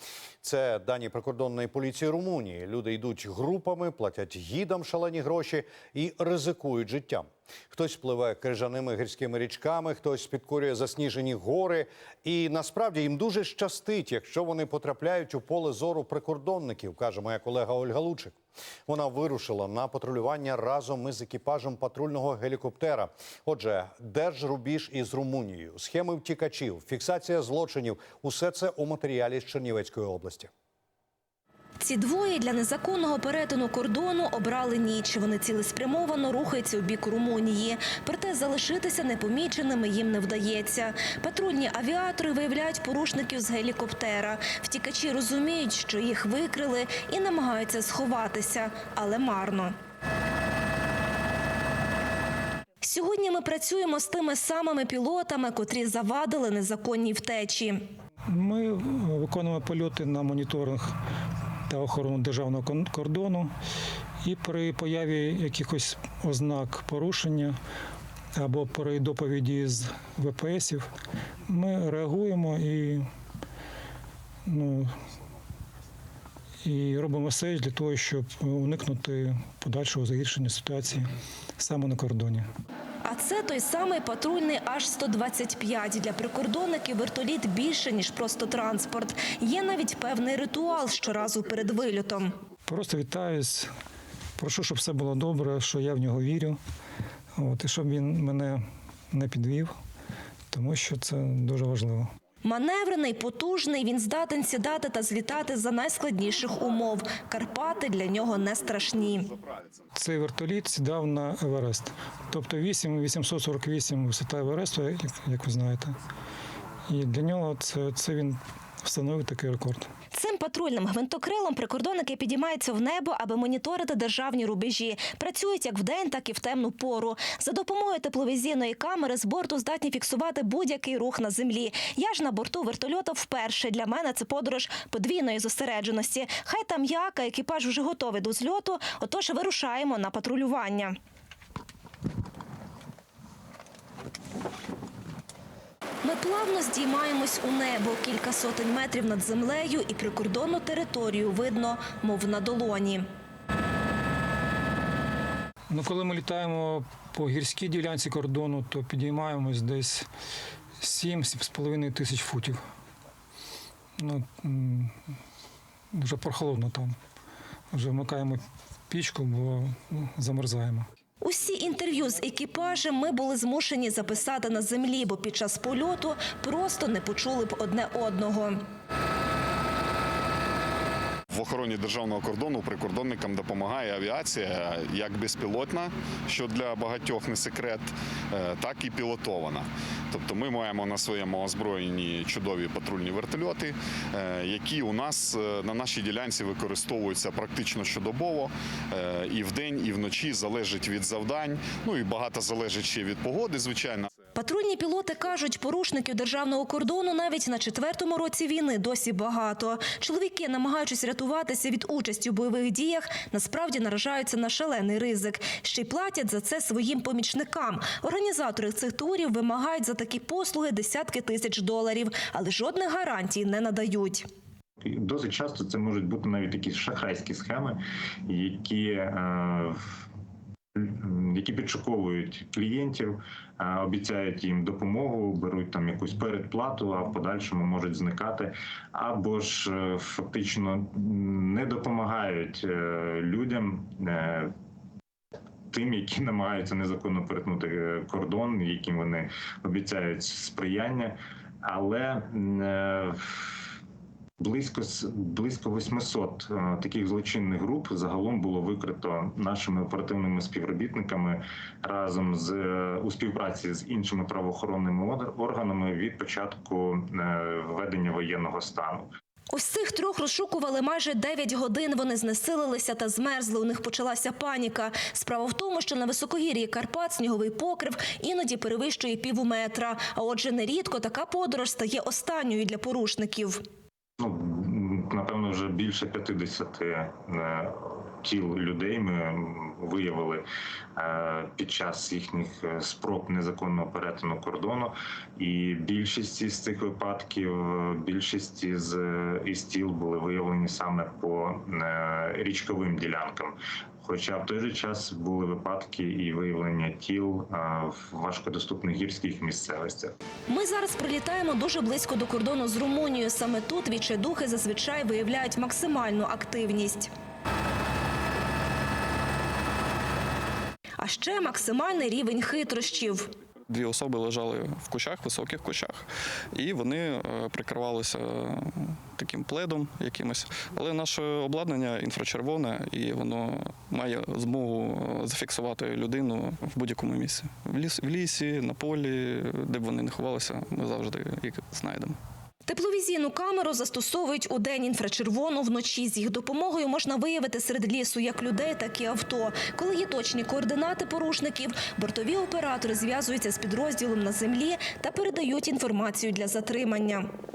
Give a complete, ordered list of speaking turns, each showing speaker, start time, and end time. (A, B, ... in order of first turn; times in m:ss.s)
0:00.4-0:18.4 A
0:18.9-0:30.5 A
0:31.8-0:49.7 B
0:52.8-0:57.9 B
0:58.3-1:01.0 C
1:01.7-1:03.5 C
1:04.2-1:07.6 C
1:08.4-1:10.9 C
1:11.5-1:13.0 C
1:14.5-1:14.9 C
1:16.6-1:21.1 C
1:21.6-1:22.5 C
1:23.0-1:32.4 B
1:32.7-1:33.7 C
1:34.4-1:36.6 C
1:37.4-1:39.7 C
1:40.5-1:42.1 C
1:42.4-1:49.3 B
1:50.0-1:56.0 C
1:56.9-1:59.9 C
2:00.1-2:21.0 B
2:26.0-2:33.1 B
2:35.7-2:40.1 C
2:40.8-2:42.6 C
2:44.0-2:44.9 C
2:45.9-2:46.9 C
2:47.7-2:50.9 C
2:51.2-2:58.6 B
3:01.3-3:24.1 D
3:24.4-3:44.3 B
3:44.8-3:49.8 E
3:50.8-4:04.5 E
4:05.7-4:13.6 E
4:14.4-4:29.1 E
4:29.5-4:43.6 B
4:44.2-4:50.4 E
4:51.0-5:10.1 E
5:10.5-5:17.1 B
5:21.0-5:23.3 B
5:23.7-5:42.2 F
5:42.7-5:57.3 B